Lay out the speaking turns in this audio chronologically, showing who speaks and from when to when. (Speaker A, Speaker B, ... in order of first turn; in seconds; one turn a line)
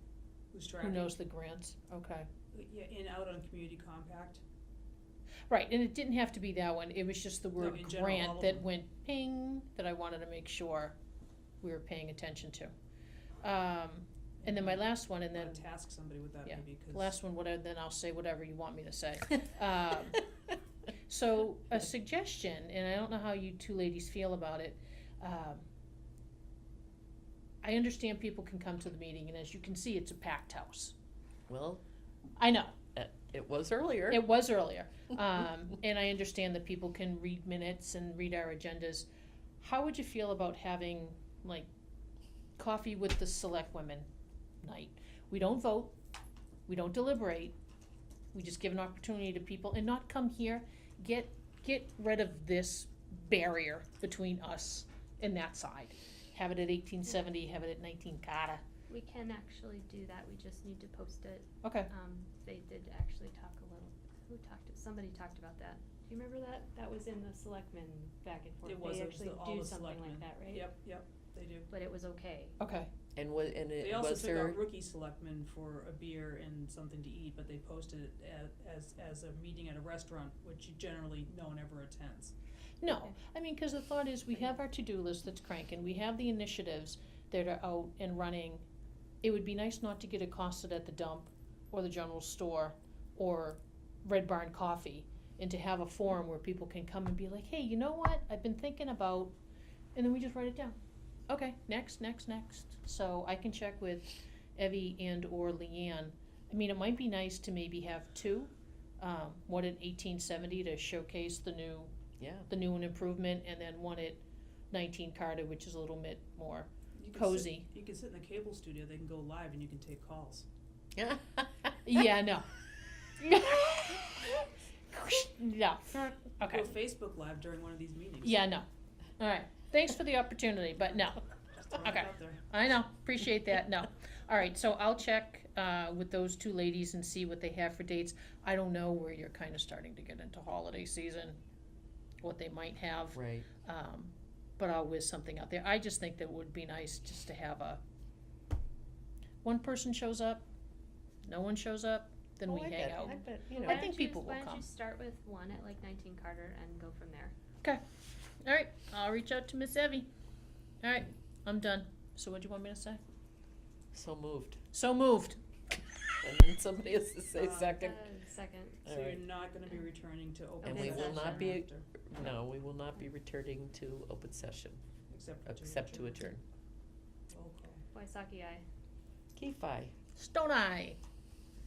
Speaker A: 0.5-1.2
Speaker B: 0.8-2.3
Speaker A: 2.5-4.4
Speaker B: 5.5-10.9
Speaker A: 7.6-8.7
Speaker B: 11.6-12.7
Speaker B: 13.4-15.6
Speaker A: 14.4-14.8
Speaker A: 15.3-17.2
Speaker B: 16.4-20.2
Speaker B: 21.1-25.6
Speaker B: 27.6-30.9
Speaker C: 31.5-31.8
Speaker B: 32.4-32.7
Speaker C: 32.9-34.3
Speaker B: 34.1-39.1
Speaker B: 39.6-41.7
Speaker B: 42.6-44.1
Speaker B: 44.6-45.9
Speaker B: 46.7-47.5
Speaker B: 48.3-58.6
Speaker D: 58.9-70.7
Speaker B: 61.6-61.9
Speaker A: 68.6-71.7
Speaker D: 71.7-72.5
Speaker B: 72.6-72.9
Speaker C: 73.1-74.6
Speaker A: 73.8-82.3
Speaker B: 82.8-88.6
Speaker B: 89.2-99.3
Speaker B: 99.9-100.8
Speaker B: 101.3-111.9
Speaker C: 112.2-112.5
Speaker B: 112.5-117.7
Speaker A: 116.9-120.5
Speaker C: 120.9-122.0
Speaker B: 121.8-122.5
Speaker B: 123.2-126.7
Speaker A: 126.5-128.4
Speaker B: 128.2-128.7
Speaker B: 129.2-131.2
Speaker A: 131.6-132.4
Speaker B: 131.8-141.4
Speaker B: 142.2-147.8
Speaker C: 143.1-143.5
Speaker B: 149.4-150.5
Speaker B: 151.2-154.6
Speaker C: 152.5-153.9
Speaker D: 153.1-157.3
Speaker B: 158.4-160.1
Speaker B: 160.8-163.0
Speaker C: 163.9-164.6
Speaker B: 164.7-165.4
Speaker C: 166.2-168.0
Speaker A: 167.3-167.9
Speaker D: 167.8-168.8
Speaker A: 168.8-171.8
Speaker C: 168.9-169.2
Speaker C: 170.6-174.8
Speaker D: 170.6-171.6
Speaker A: 175.1-176.2
Speaker C: 175.4-176.4
Speaker A: 177.3-177.8
Speaker D: 177.9-178.6
Speaker C: 179.3-179.9
Speaker B: 180.1-181.0